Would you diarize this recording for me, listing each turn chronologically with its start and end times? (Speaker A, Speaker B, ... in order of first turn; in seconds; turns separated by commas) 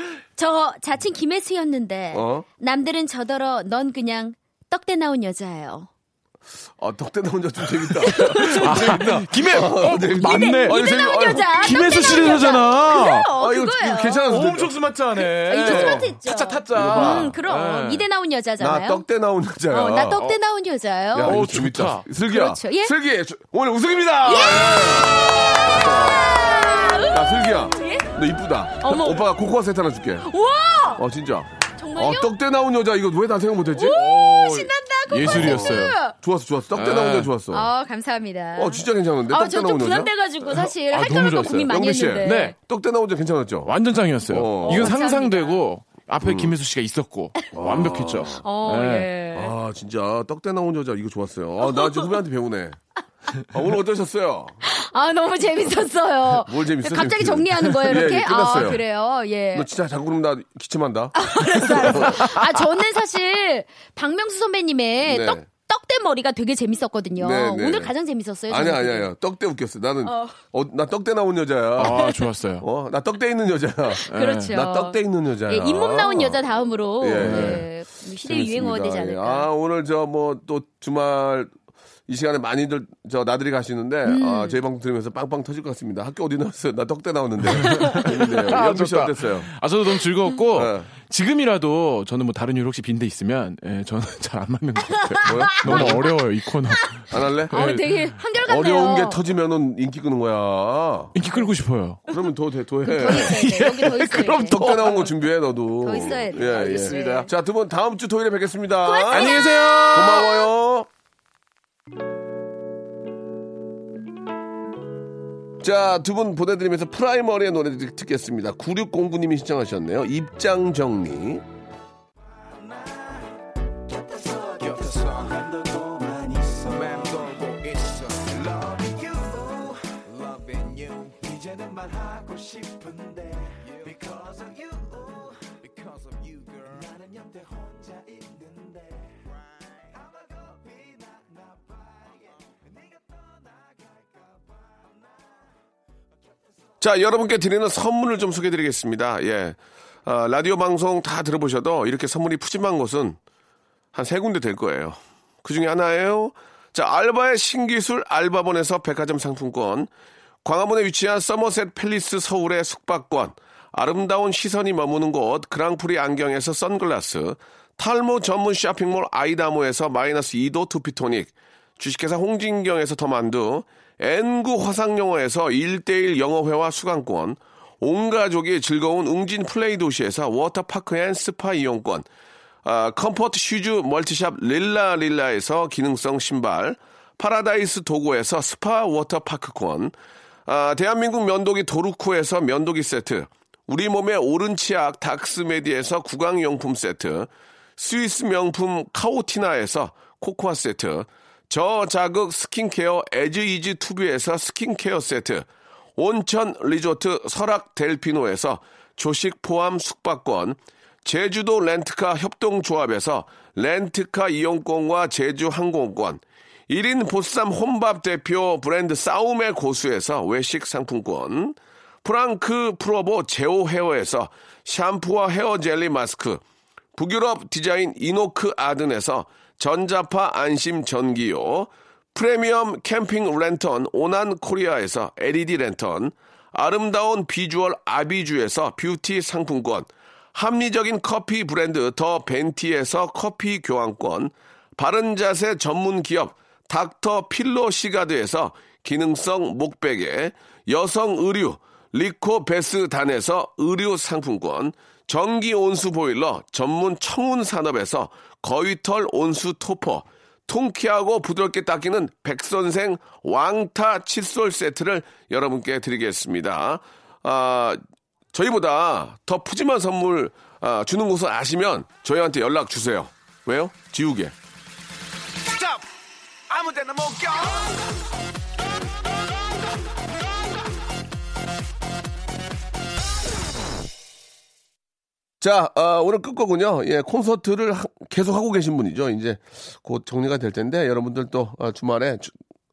Speaker A: 0.4-5.9, Speaker B: 2.1-2.5, Speaker B: 6.8-12.5, Speaker A: 8.0-14.4, Speaker C: 8.1-13.3, Speaker B: 13.4-14.8, Speaker C: 14.3-18.1, Speaker A: 15.5-19.1, Speaker B: 15.6-16.1, Speaker B: 16.7-17.3, Speaker B: 18.6-20.2, Speaker A: 19.7-21.4, Speaker B: 21.1-30.3, Speaker C: 21.2-22.1, Speaker A: 22.2-22.9, Speaker A: 24.2-28.1, Speaker A: 28.7-29.3, Speaker A: 30.2-31.0, Speaker B: 30.9-34.1, Speaker A: 31.8-32.3, Speaker A: 33.7-36.1, Speaker C: 33.9-36.0, Speaker B: 35.2-37.7, Speaker C: 36.7-37.3, Speaker A: 37.5-42.5, Speaker B: 38.5-40.1, Speaker C: 40.4-42.5, Speaker B: 41.7-43.7, Speaker C: 43.6-49.1, Speaker B: 44.3-45.0, Speaker A: 44.6-45.6, Speaker B: 46.2-46.5, Speaker B: 47.5-48.4, Speaker A: 48.4-49.5, Speaker B: 49.3-52.8, Speaker A: 51.6-52.1, Speaker B: 53.5-54.6, Speaker A: 54.6-59.7, Speaker B: 56.4-58.8, Speaker B: 59.5-62.3, Speaker A: 61.1-69.1, Speaker C: 62.0-62.3, Speaker B: 65.0-65.5, Speaker B: 67.2-67.9, Speaker B: 68.5-72.0, Speaker A: 70.0-70.4, Speaker C: 71.8-72.7, Speaker A: 71.9-72.2, Speaker B: 72.6-76.4, Speaker A: 73.9-79.5, Speaker C: 74.1-74.6, Speaker B: 77.0-77.7, Speaker C: 77.2-77.7, Speaker B: 78.2-81.5, Speaker B: 82.1-89.5, Speaker A: 84.1-84.6, Speaker A: 87.5-88.1, Speaker C: 87.6-98.0, Speaker B: 90.5-90.9, Speaker A: 95.0-96.1, Speaker B: 95.2-96.1, Speaker B: 97.1-97.7, Speaker A: 97.5-99.2, Speaker B: 98.5-101.2, Speaker C: 101.2-102.0, Speaker B: 102.1-103.5, Speaker A: 102.9-104.9, Speaker C: 103.0-105.1, Speaker B: 104.5-110.9, Speaker A: 105.8-107.3, Speaker C: 106.3-107.3, Speaker A: 108.8-110.2, Speaker C: 109.1-110.5, Speaker B: 115.6-121.5, Speaker D: 124.1-138.2, Speaker B: 146.8-153.2, Speaker B: 153.9-159.9, Speaker B: 160.4-182.1, Speaker B: 182.6-189.9, Speaker B: 190.5-205.5, Speaker B: 206.0-226.4, Speaker B: 226.9-267.8, Speaker B: 268.3-274.4, Speaker D: 276.6-277.6, Speaker B: 285.4-292.3